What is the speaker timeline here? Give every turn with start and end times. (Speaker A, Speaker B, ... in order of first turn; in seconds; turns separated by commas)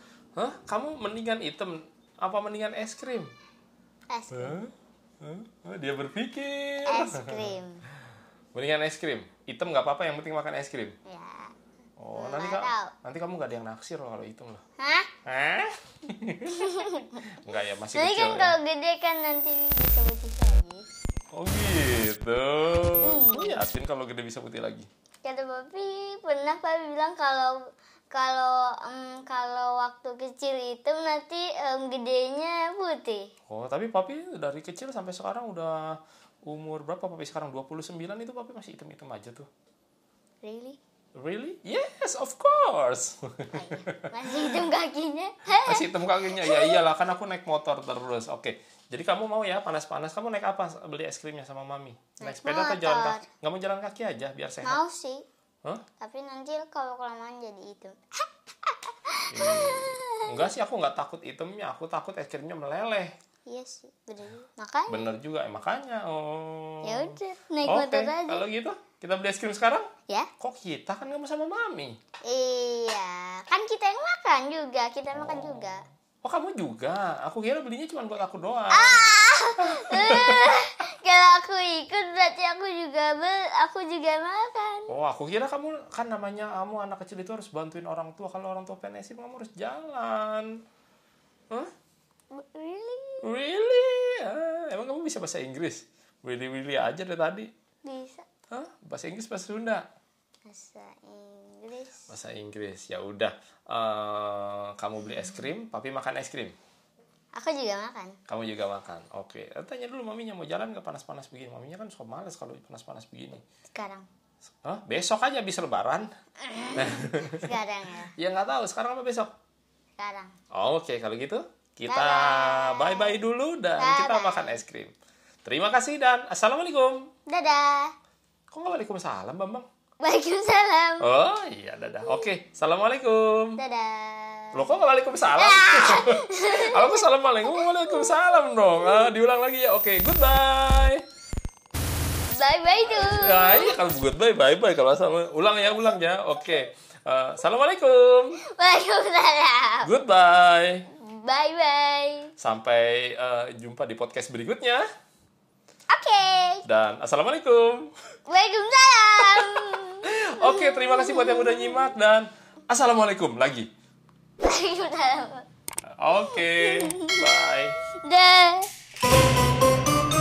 Speaker A: 0.4-3.3, Speaker B: 4.1-4.6, Speaker A: 4.3-7.6, Speaker B: 6.9-7.8, Speaker A: 8.5-11.0, Speaker B: 11.1-11.5, Speaker A: 12.0-14.6, Speaker B: 12.1-12.9, Speaker B: 14.8-15.1, Speaker A: 15.2-18.6, Speaker B: 16.6-17.3, Speaker B: 17.9-20.8, Speaker A: 21.3-24.9, Speaker B: 23.0-23.6, Speaker B: 25.2-27.6, Speaker B: 28.1-33.3, Speaker A: 33.5-39.5, Speaker B: 40.4-40.8, Speaker A: 41.1-44.5, Speaker B: 43.5-46.8, Speaker A: 45.6-54.8, Speaker B: 52.2-53.2, Speaker B: 54.6-55.2, Speaker B: 56.0-60.5, Speaker A: 59.3-63.1, Speaker B: 63.5-65.1, Speaker A: 64.9-69.9, Speaker B: 66.8-68.4, Speaker A: 70.4-72.0, Speaker B: 72.3-75.8, Speaker A: 75.1-75.7, Speaker A: 76.2-79.0, Speaker B: 78.7-84.9, Speaker A: 79.6-80.5, Speaker A: 84.9-90.5, Speaker B: 92.3-93.2, Speaker A: 93.2-97.5, Speaker B: 97.9-98.2, Speaker A: 98.5-99.8, Speaker B: 100.5-102.1, Speaker A: 102.1-106.6, Speaker B: 107.3-108.2, Speaker A: 108.3-113.4, Speaker B: 113.7-114.1, Speaker A: 114.6-116.1, Speaker B: 116.4-118.1, Speaker A: 116.8-117.5, Speaker A: 118.2-119.3, Speaker B: 120.0-120.3, Speaker A: 120.5-124.9, Speaker B: 121.9-123.2, Speaker B: 123.8-124.6, Speaker A: 125.4-127.1, Speaker B: 127.3-127.9, Speaker A: 128.5-129.7, Speaker B: 130.0-131.1, Speaker A: 131.0-133.6, Speaker B: 133.6-134.8, Speaker A: 134.5-141.0, Speaker B: 135.3-138.2, Speaker B: 142.3-143.8, Speaker A: 142.7-148.4, Speaker B: 148.5-149.9, Speaker A: 149.8-150.9, Speaker B: 150.9-152.3, Speaker A: 152.4-154.8, Speaker B: 155.9-156.6, Speaker A: 156.7-157.9, Speaker B: 158.3-161.9, Speaker A: 159.2-163.7, Speaker B: 164.4-165.5, Speaker A: 166.0-167.8, Speaker B: 166.3-167.3, Speaker B: 167.9-168.7